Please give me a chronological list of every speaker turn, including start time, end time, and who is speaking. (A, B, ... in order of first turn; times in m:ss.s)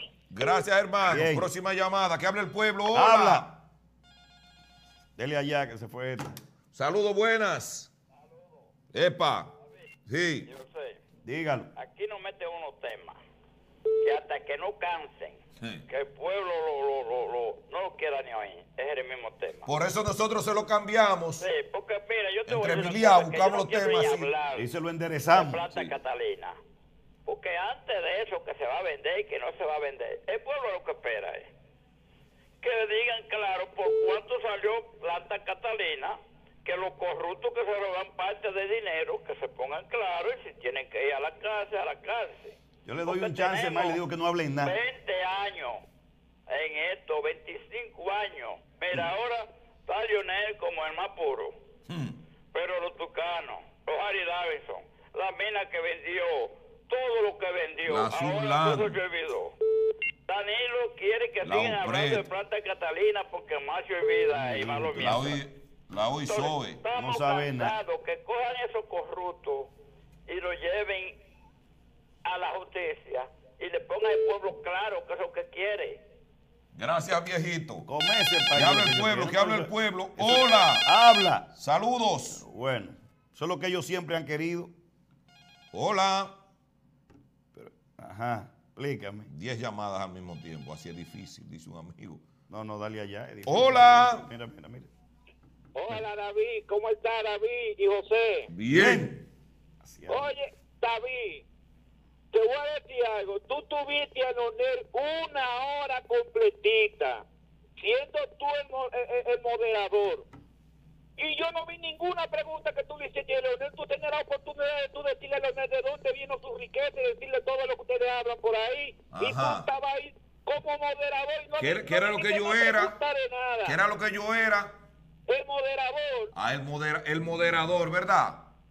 0:00.3-0:03.5 A
0:01.1-0:01.5 B
0:02.9-0:03.5 B
0:05.2-0:06.4 B
0:06.7-0:07.9 A
0:08.9-0:09.5 A
0:10.1-0:10.5 A
0:10.5-0:11.0 C
0:11.2-0:11.7 B
0:11.8-0:13.2 C
0:14.0-0:19.7 C
0:19.6-0:21.5 A
0:21.4-0:24.6 C
0:22.5-0:24.3 A
0:24.6-0:25.6 B
0:25.3-0:26.6 C
0:27.2-0:31.5 C
0:32.6-0:44.0 C
0:42.8-0:44.7 B
0:44.6-0:45.8 C
0:46.5-0:51.6 C
0:51.9-0:52.2 A
0:52.5-0:59.5 C
0:57.8-0:59.0 A
1:00.3-1:05.4 C
1:01.4-1:02.2 A
1:04.3-1:05.4 B
1:04.9-1:06.8 A
1:06.2-1:09.7 C
1:06.9-1:07.7 B
1:10.3-1:11.2 C
1:12.2-1:16.0 C
1:16.7-1:17.8 A
1:17.8-1:21.5 B
1:18.5-1:20.9 A
1:21.5-1:22.4 A
1:22.3-1:24.7 B
1:25.7-1:26.4 A
1:27.5-1:29.3 B
1:29.3-1:32.2 A
1:32.5-1:34.9 B
1:33.5-1:34.3 A
1:35.7-1:38.5 D
1:38.5-1:39.2 A
1:38.7-1:39.2 B
1:39.8-1:40.3 B
1:40.1-1:41.4 D
1:42.3-1:47.2 D
1:47.8-1:50.2 D
1:51.2-2:03.8 D
1:59.1-1:59.7 A
2:01.6-2:03.0 A
2:03.6-2:04.8 A
2:05.3-2:06.3 D
2:06.3-2:08.5 A